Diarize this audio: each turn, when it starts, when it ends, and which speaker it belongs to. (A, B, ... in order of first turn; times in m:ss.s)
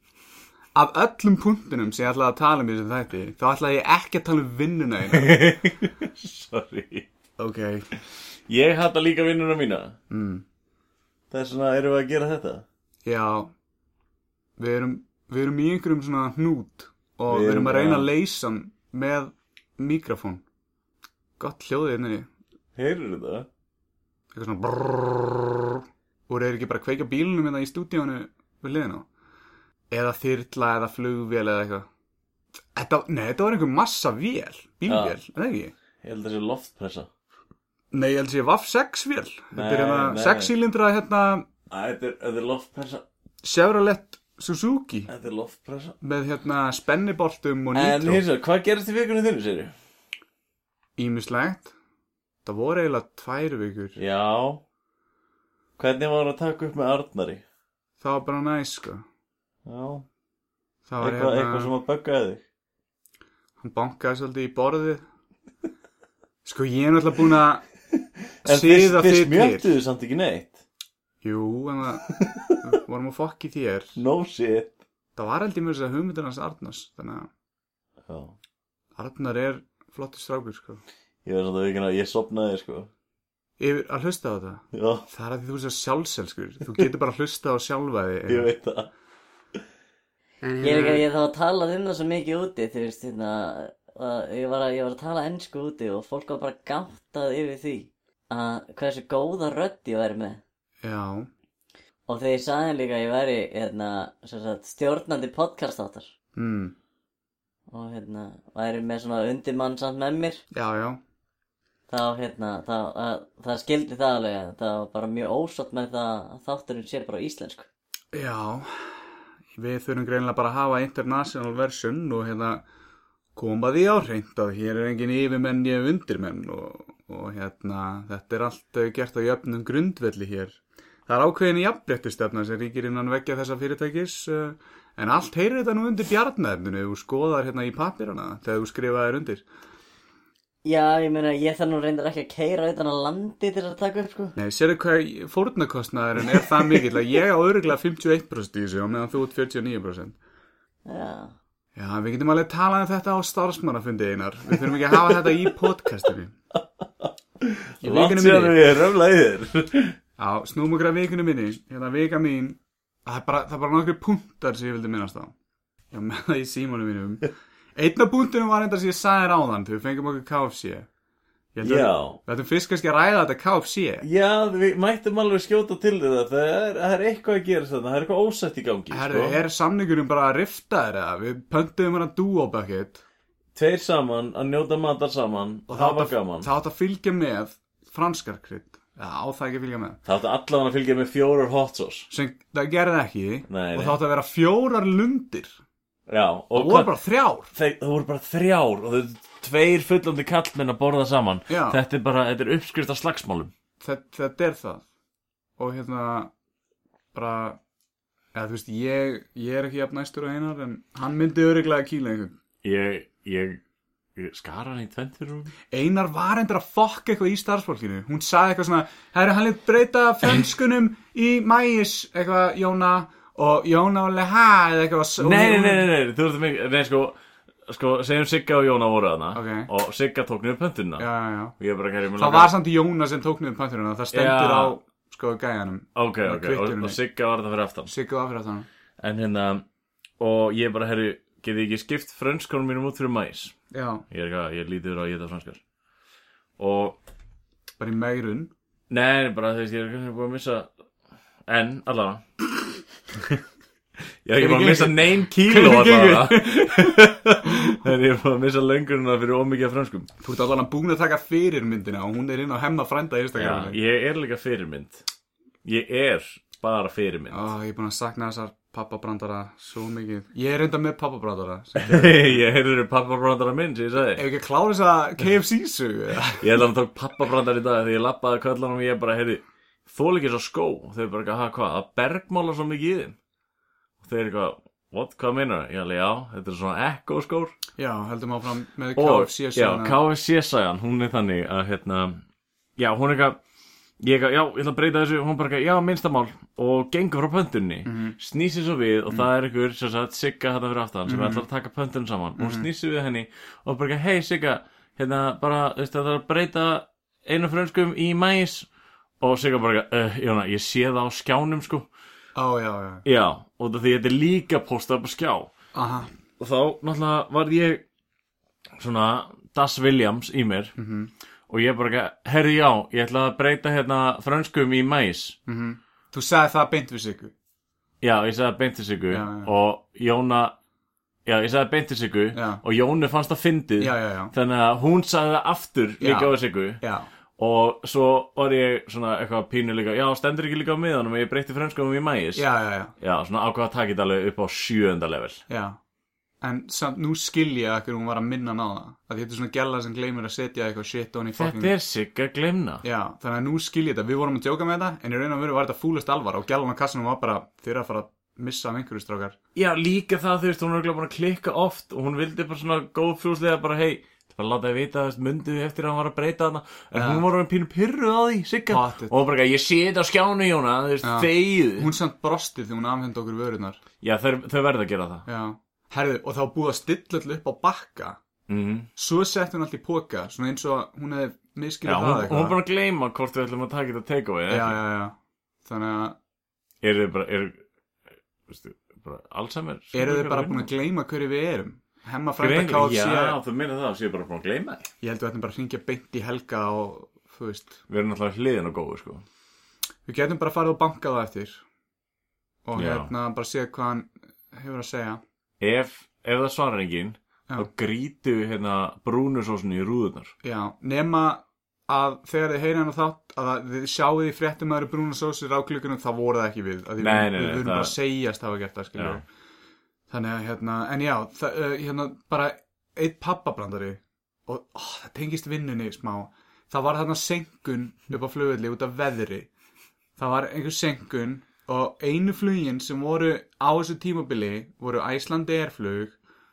0:00.7-0:05.4 A
0:05.1-0:07.1 B
0:07.4-0:07.9 A
0:08.5-0:10.0 B
0:10.1-0:10.4 A
0:11.3-0:12.6 B
0:13.0-0:13.5 A
0:14.6-0:20.4 A
0:17.3-0:18.1 B
0:21.4-0:22.3 A
0:22.7-0:23.5 B
0:24.3-0:29.0 A
0:29.9-0:31.8 A
0:32.7-0:35.7 A
0:34.9-0:35.2 B
0:36.0-0:37.1 B
0:37.9-0:41.5 A
0:39.5-0:40.5 B
0:41.7-0:43.0 B
0:43.4-0:45.1 A
0:45.1-0:45.9 B
0:46.0-0:48.2 A
0:47.7-0:49.7 B
0:51.0-0:51.7 A
0:52.4-0:54.0 A
0:54.0-0:54.6 B
0:55.8-0:57.4 B
0:58.0-0:59.0 A
0:59.6-1:00.0 B
1:00.9-1:01.7 A
1:01.0-1:02.4 B
1:03.6-1:05.0 A
1:06.4-1:07.6 A
1:08.4-1:10.6 B
1:08.4-1:09.7 A
1:11.2-1:12.1 A
1:12.2-1:12.6 B
1:12.6-1:14.0 A
1:14.0-1:14.7 B
1:15.2-1:17.3 A
1:18.1-1:18.3 B
1:19.0-1:20.8 A
1:21.2-1:22.9 B
1:23.6-1:28.5 A
1:24.7-1:25.1 B
1:28.3-1:28.9 B
1:30.6-1:40.4 C
1:40.8-1:41.3 A
1:42.1-1:46.1 C
1:46.4-1:46.7 A
1:47.7-1:50.4 C
1:50.5-1:51.0 A
1:51.9-1:57.7 C
1:58.1-1:59.0 A
1:59.6-2:02.6 A
2:03.4-2:19.4 A
2:20.6-2:24.3 C
2:24.4-2:30.2 A
2:30.8-2:31.3 C
2:31.7-2:36.3 A
2:34.5-2:35.5 B
2:36.5-2:40.0 B
2:37.8-2:38.6 A
2:40.2-2:45.3 A
2:45.9-2:50.9 A
2:51.5-2:54.0 A
2:51.6-2:52.2 B
2:54.0-2:59.4 B
2:58.9-3:03.0 A
3:03.5-3:06.5 B
3:05.7-3:10.0 A
3:10.0-3:12.1 B
3:12.1-3:15.6 A
3:13.5-3:14.0 B
3:16.1-3:16.9 B
3:16.5-3:17.5 A
3:17.5-3:23.5 B
3:21.5-3:21.8 A
3:23.8-3:24.8 A
3:25.6-3:26.3 A
3:27.1-3:27.6 A
3:28.3-3:32.3 A
3:32.6-3:33.6 B
3:34.2-3:35.5 B
3:35.7-3:45.9 A
3:45.2-3:51.1 B
3:49.3-3:49.7 A
3:51.0-3:51.5 A
3:51.6-3:52.5 B
3:52.2-3:57.0 A
3:54.1-3:54.8 B
3:56.0-3:57.9 B
3:57.9-3:58.7 A
3:59.0-3:59.6 B
4:00.2-4:03.5 B
4:03.7-4:04.0 A
4:04.1-4:05.6 B
4:06.6-4:07.0 B
4:07.8-4:08.5 A
4:08.9-4:10.7 B
4:11.5-4:12.2 B
4:14.2-4:20.1 B
4:14.4-4:17.8 A
4:20.2-4:23.8 A
4:23.4-4:25.0 B
4:25.6-4:27.5 B
4:27.3-4:32.4 A
4:31.8-4:34.2 B
4:34.2-4:36.5 A
4:36.4-4:43.2 B
4:44.0-4:47.5 B
4:47.8-4:50.0 A
4:49.0-4:52.2 B
4:52.8-4:53.4 B
4:54.0-5:08.7 B
4:57.8-4:58.2 A
5:01.1-5:01.4 A
5:02.4-5:02.7 A
5:09.2-5:11.9 B
5:12.4-5:13.0 A
5:13.0-5:15.5 B
5:15.7-5:16.1 A
5:16.4-5:17.8 B
5:18.8-5:20.7 B
5:20.8-5:21.1 A
5:21.5-5:25.4 B
5:25.5-5:27.3 A
5:28.0-5:30.5 B
5:29.1-5:29.5 A
5:31.2-5:36.8 B
5:32.3-5:32.6 A
5:33.8-5:34.3 A
5:36.0-5:37.1 A
5:37.4-5:42.4 B
5:42.4-5:42.9 A
5:43.0-5:45.4 B
5:45.5-5:45.8 A
5:46.4-5:51.7 A
5:51.4-5:52.8 B
5:52.8-5:59.4 A
5:59.5-6:11.9 B
6:06.9-6:07.2 A
6:08.7-6:09.1 A
6:11.0-6:13.8 A
6:14.0-6:15.2 B
6:15.2-6:18.2 A
6:18.5-6:18.9 B
6:19.0-6:22.6 A
6:21.8-6:24.8 B
6:24.5-6:26.2 A
6:26.8-6:27.6 B
6:28.5-6:30.7 B
6:29.9-6:33.4 A
6:32.4-6:34.9 B
6:35.0-6:37.8 A
6:37.9-6:39.2 B
6:40.0-6:41.6 A
6:42.6-6:45.2 A
6:42.8-6:43.1 B
6:45.6-6:50.3 B
6:50.4-6:59.2 A
6:57.0-6:57.9 B
6:59.0-6:59.2 B
7:00.1-7:09.5 A
7:10.2-7:16.2 A